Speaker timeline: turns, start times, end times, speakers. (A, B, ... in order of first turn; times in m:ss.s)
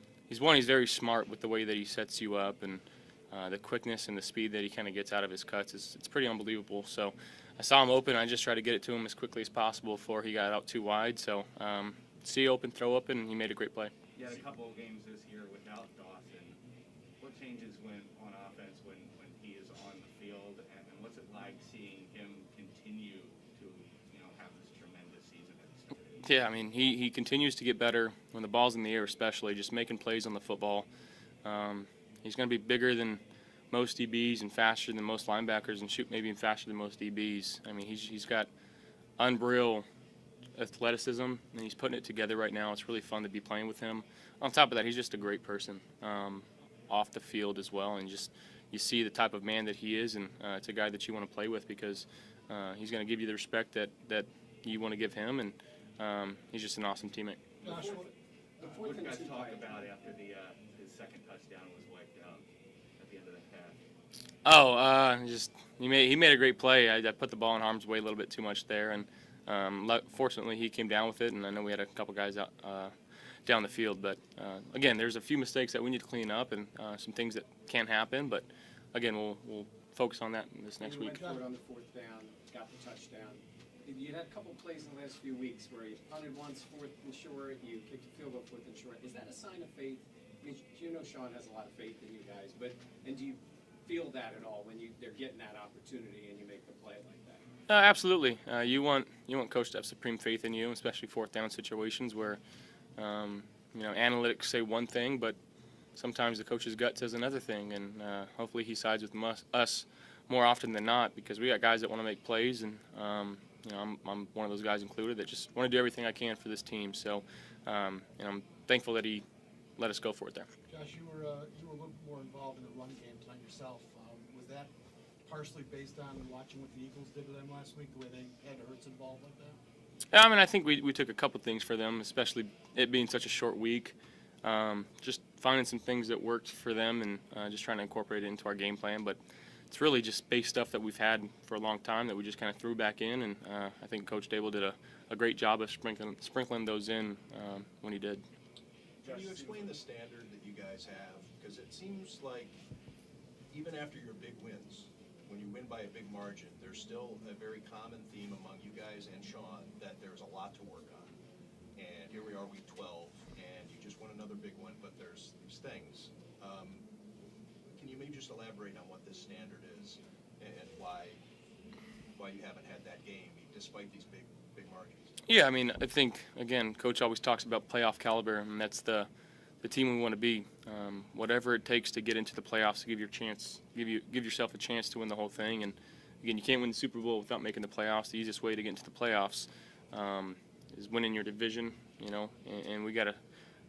0:00.3-0:13.9 A
0:14.1-0:16.6 B
0:17.2-0:26.2 B
0:26.2-0:30.9 A
0:31.4-0:38.5 A
0:39.2-0:39.8 A
0:40.5-0:57.4 A
0:57.6-0:58.1 C
0:57.6-0:58.1 D
0:58.6-1:02.4 B
0:58.6-0:59.9 D
0:58.7-0:59.4 C
1:03.0-1:03.8 B
1:04.4-1:12.9 A
1:13.4-1:21.2 A
1:20.8-1:37.4 D
1:21.0-1:21.5 C
1:37.7-1:42.4 A
1:43.0-1:45.4 A
1:45.9-1:59.2 A
1:59.8-2:00.5 A
2:00.7-2:04.7 C
2:05.2-2:09.6 C
2:10.1-2:28.2 A
2:29.0-2:32.6 E
2:33.5-2:41.1 E
2:41.8-2:46.8 E
2:47.6-2:51.2 E
2:52.1-2:55.2 E
2:55.2-2:59.1 A
2:59.6-3:13.2 A